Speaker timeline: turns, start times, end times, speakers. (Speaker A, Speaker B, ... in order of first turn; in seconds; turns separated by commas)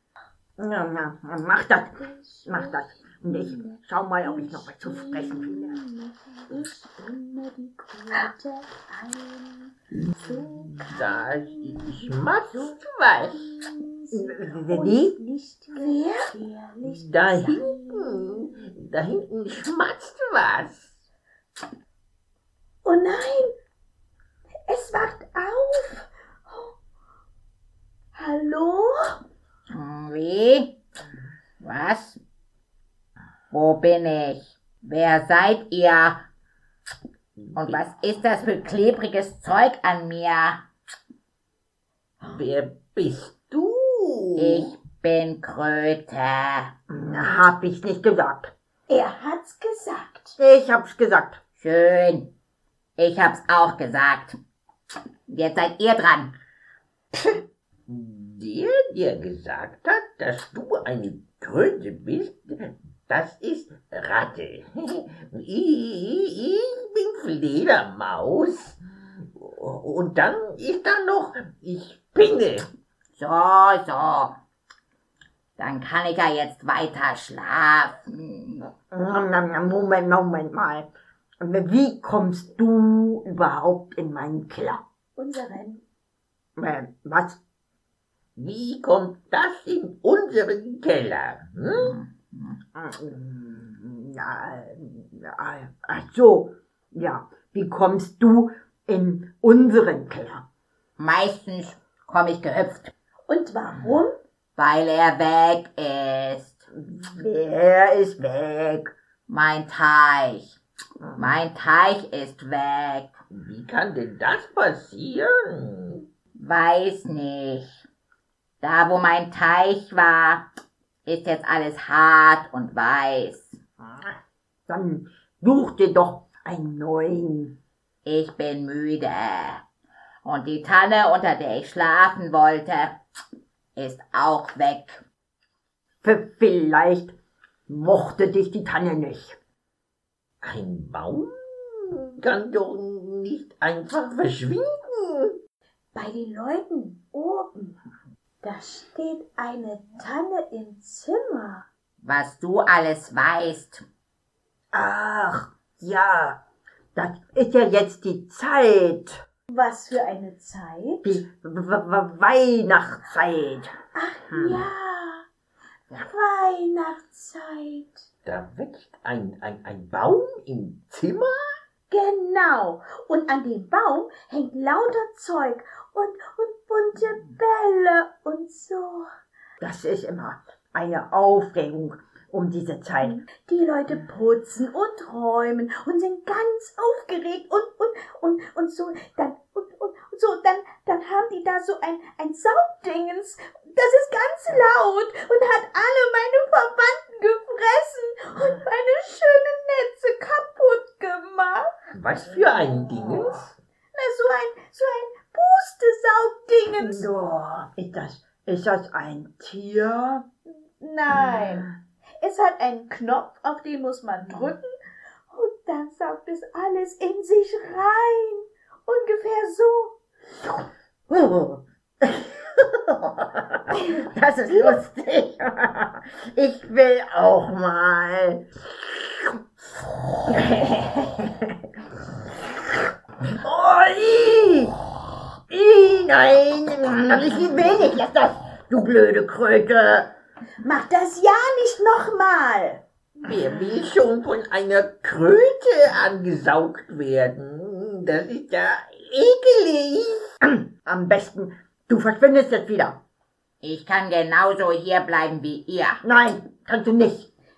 Speaker A: 0.6-5.8, Speaker B: 2.0-2.8, Speaker B: 3.3-18.5, Speaker C: 9.9-13.5, Speaker A: 14.1-15.2, Speaker C: 16.8-21.0, Speaker B: 22.8-23.5, Speaker B: 24.7-26.7, Speaker B: 28.1-29.2, Speaker D: 29.7-30.8, Speaker D: 31.6-32.2, Speaker D: 33.5-36.2, Speaker C: 37.4-37.8, Speaker D: 37.5-40.6, Speaker C: 42.2-44.7, Speaker D: 44.4-46.7, Speaker A: 46.9-48.5, Speaker B: 48.9-50.4, Speaker A: 50.4-51.4, Speaker D: 51.6-52.3, Speaker D: 53.0-54.4, Speaker D: 55.3-56.3, Speaker C: 57.9-68.8, Speaker C: 69.3-72.7, Speaker D: 73.2-74.3, Speaker D: 75.6-78.7, Speaker A: 78.9-80.9, Speaker A: 81.4-84.8, Speaker B: 85.2-85.8, Speaker A: 86.6-87.4, Speaker C: 88.3-92.0, Speaker D: 91.9-92.5, Speaker A: 92.7-100.4, Speaker D: 101.0-102.9, Speaker B: 103.3-104.1, Speaker D: 104.6-106.7, Speaker A: 106.7-108.9, Speaker D: 109.3-110.5, Speaker D: 111.2-113.1, Speaker C: 113.3-116.0, Speaker D: 116.3-117.8, Speaker D: 118.6-120.5, Speaker D: 121.0-123.6, Speaker A: 123.8-124.1, Speaker A: 124.7-127.5, Speaker D: 128.0-129.6, Speaker D: 130.2-132.9, Speaker D: 133.8-135.0, Speaker A: 136.0-137.1, Speaker A: 137.7-139.4, Speaker C: 140.4-145.4, Speaker B: 145.9-147.8, Speaker B: 148.4-151.6, Speaker D: 152.0-153.8, Speaker A: 154.7-156.4, Speaker A: 156.9-159.2, Speaker B: 159.5-161.1, Speaker A: 161.0-163.7, Speaker B: 163.9-165.2, Speaker A: 164.3-164.7, Speaker B: 165.9-168.0, Speaker C: 168.2-171.6, Speaker B: 171.9-179.1, Speaker A: 179.6-183.2, Speaker B: 183.0-201.7, Speaker C: 201.9-203.5, Speaker B: 203.9-207.1, Speaker A: 206.8-210.2, Speaker B: 210.5-211.7, Speaker A: 211.1-211.7, Speaker B: 212.2-214.7, Speaker B: 215.3-219.9, Speaker A: 221.1-229.3, Speaker B: 223.8-224.0, Speaker A: 230.3-231.6, Speaker A: 233.3-234.8, Speaker A: 235.5-240.1, Speaker B: 240.6-242.8, Speaker C: 243.2-250.3, Speaker A: 250.4-253.0, Speaker D: 253.6-256.0, Speaker A: 256.0-257.3